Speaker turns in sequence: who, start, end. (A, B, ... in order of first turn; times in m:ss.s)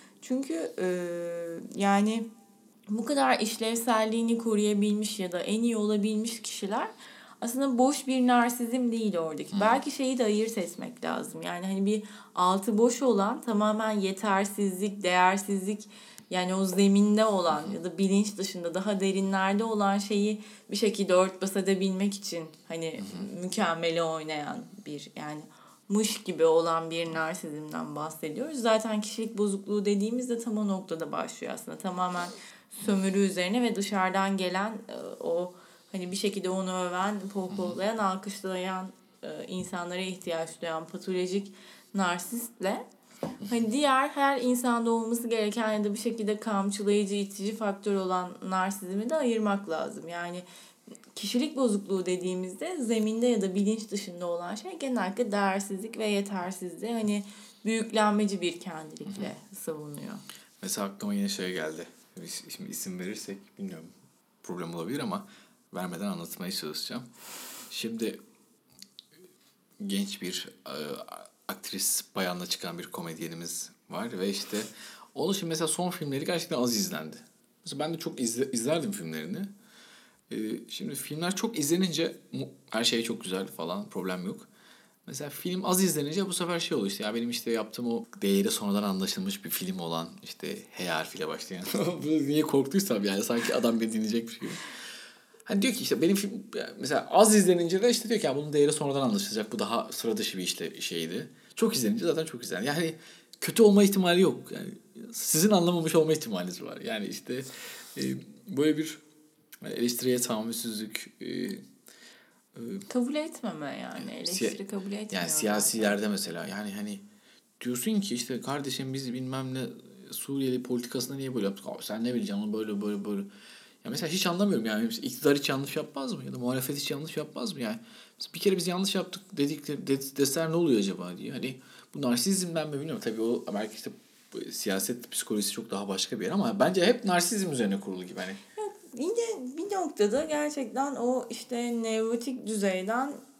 0:00.2-0:02.3 A
0:02.9-0:42.8 A
0:09.5-0:09.8 B
0:17.5-0:17.8 B
0:23.0-0:23.3 B
0:37.5-0:37.8 B
0:43.4-0:50.4 A
0:51.1-1:00.2 A
1:00.6-1:03.9 B
1:04.4-1:07.1 B
1:07.7-1:08.2 B
1:09.8-1:19.5 B
1:20.3-1:24.5 B
1:25.1-1:34.6 B
1:35.4-1:49.0 B
1:49.6-1:51.6 B
1:52.5-1:52.9 B
1:52.9-1:56.0 A
1:54.0-1:54.6 B
1:55.1-1:57.0 B
1:57.6-2:03.3 B
2:03.8-2:18.4 B
2:18.6-2:23.2 A